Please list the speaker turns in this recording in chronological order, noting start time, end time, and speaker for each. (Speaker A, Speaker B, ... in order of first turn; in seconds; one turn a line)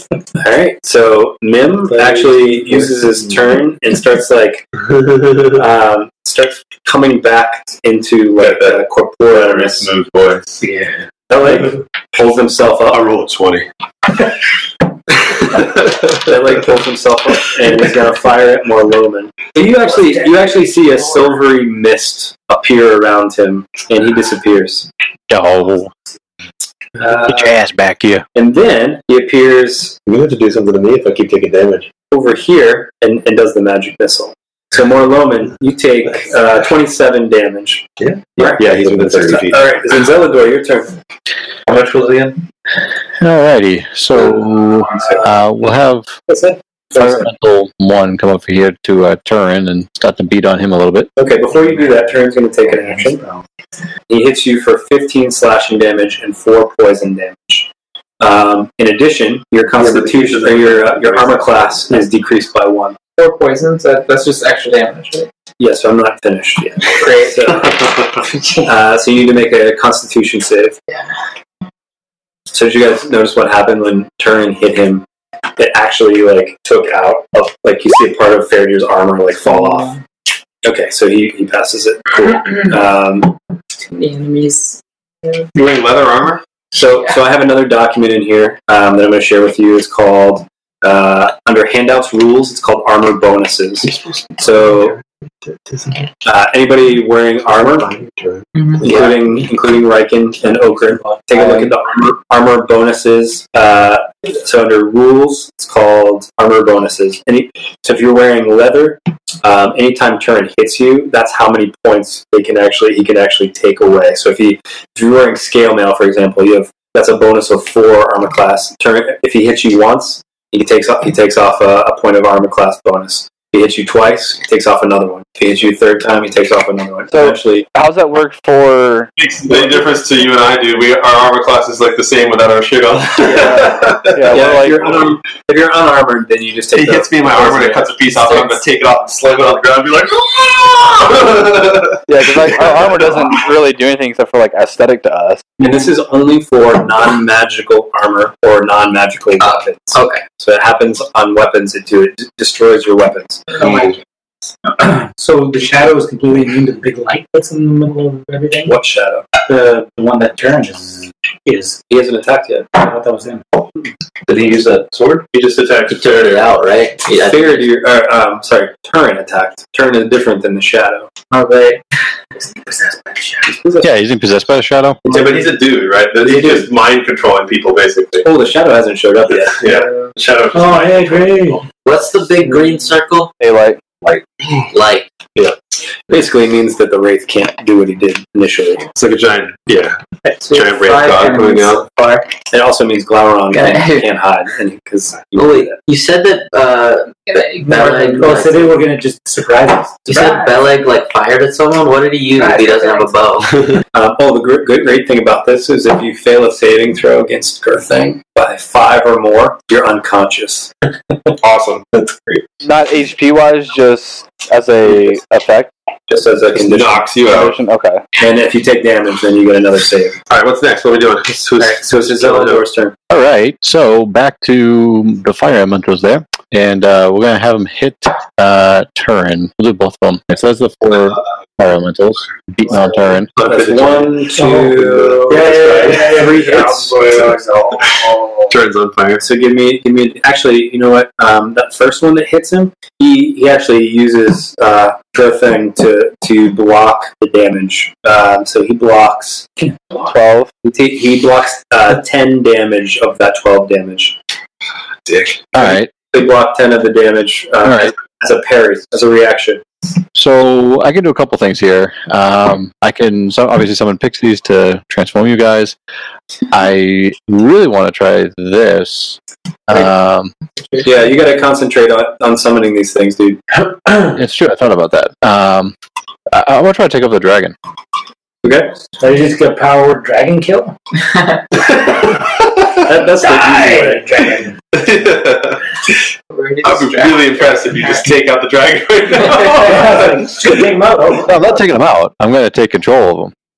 Speaker A: 0.4-4.7
Speaker B: 1.9-2.4
Speaker B: 4.9-5.6
Speaker A: 5.5-9.9
Speaker B: 8.4-10.9
Speaker A: 11.3-13.1
Speaker B: 12.9-13.7
Speaker B: 15.3-16.2
Speaker A: 16.1-24.9
Speaker C: 25.3-25.9
Speaker A: 27.0-27.5
Speaker C: 27.2-28.3
Speaker A: 28.4-30.0
Speaker B: 30.1-31.9
Speaker A: 32.1-37.9
Speaker B: 38.4-39.7
Speaker A: 38.4-41.0
Speaker D: 41.7-42.3
Speaker C: 43.2-46.1
Speaker A: 46.3-47.3
Speaker C: 46.9-51.1
Speaker A: 51.2-53.3
Speaker A: 54.1-57.7
Speaker A: 58.2-63.0
Speaker B: 59.8-61.9
Speaker E: 63.1-65.3
Speaker A: 65.6-68.0
Speaker E: 66.9-67.6
Speaker E: 68.2-68.7
Speaker A: 68.6-70.8
Speaker A: 72.5-75.0
Speaker A: 75.6-79.9
Speaker E: 79.5-80.0
Speaker A: 80.6-83.3
Speaker E: 82.3-82.6
Speaker E: 83.8-85.5
Speaker B: 85.5-86.4
Speaker A: 86.7-95.0
Speaker B: 93.9-96.1
Speaker A: 96.2-97.9
Speaker B: 97.5-99.2
Speaker A: 98.8-127.7
Speaker F: 100.5-101.6
Speaker G: 127.1-129.1
Speaker B: 129.2-134.9
Speaker G: 133.2-134.9
Speaker A: 134.3-137.9
Speaker B: 136.7-143.4
Speaker E: 138.3-138.6
Speaker G: 142.1-145.4
Speaker A: 145.6-153.6
Speaker E: 149.4-150.2
Speaker F: 153.5-153.9
Speaker F: 154.7-158.8
Speaker A: 158.7-159.3
Speaker F: 159.5-161.8
Speaker A: 161.9-162.8
Speaker F: 162.8-163.4
Speaker D: 164.3-165.2
Speaker B: 165.3-166.5
Speaker D: 165.9-167.7
Speaker A: 167.2-171.1
Speaker E: 171.3-171.8
Speaker E: 172.4-173.5
Speaker A: 173.5-173.9
Speaker C: 173.8-175.0
Speaker B: 175.1-178.3
Speaker A: 176.2-176.7
Speaker A: 178.2-179.6
Speaker B: 179.3-181.2
Speaker E: 179.7-180.1
Speaker F: 180.5-181.7
Speaker D: 181.8-183.3
Speaker G: 183.4-183.8
Speaker D: 184.7-185.1
Speaker A: 186.1-188.9
Speaker B: 188.9-191.9
Speaker E: 190.2-192.3
Speaker A: 192.5-195.8
Speaker E: 193.5-194.1
Speaker D: 195.3-198.5
Speaker E: 197.3-198.8
Speaker F: 197.8-200.6
Speaker D: 200.1-203.8
Speaker E: 202.4-203.1
Speaker A: 203.9-210.7
Speaker B: 211.4-212.4
Speaker G: 212.6-215.7
Speaker A: 216.1-217.2
Speaker B: 216.5-217.6
Speaker G: 217.3-218.0
Speaker A: 218.2-220.2
Speaker B: 220.3-222.7
Speaker A: 221.6-222.9
Speaker C: 223.1-233.3
Speaker B: 233.3-236.3
Speaker A: 233.4-237.1
Speaker F: 234.3-237.8
Speaker B: 236.9-239.2
Speaker A: 239.2-249.5
Speaker F: 249.7-250.1
Speaker G: 250.1-250.5
Speaker A: 250.6-254.2
Speaker B: 255.1-255.5
Speaker C: 255.5-255.9
Speaker A: 255.6-259.7
Speaker C: 257.6-257.9
Speaker C: 260.1-265.8
Speaker C: 266.5-270.3
Speaker A: 270.8-273.4
Speaker C: 274.1-275.8
Speaker C: 276.3-277.6
Speaker A: 278.4-278.8
Speaker F: 279.0-280.8
Speaker E: 281.0-281.4
Speaker B: 281.7-282.4
Speaker A: 282.8-284.3
Speaker F: 283.4-284.5
Speaker B: 284.7-285.8
Speaker E: 286.3-288.1
Speaker B: 286.6-290.6
Speaker F: 289.6-291.6
Speaker C: 291.3-293.3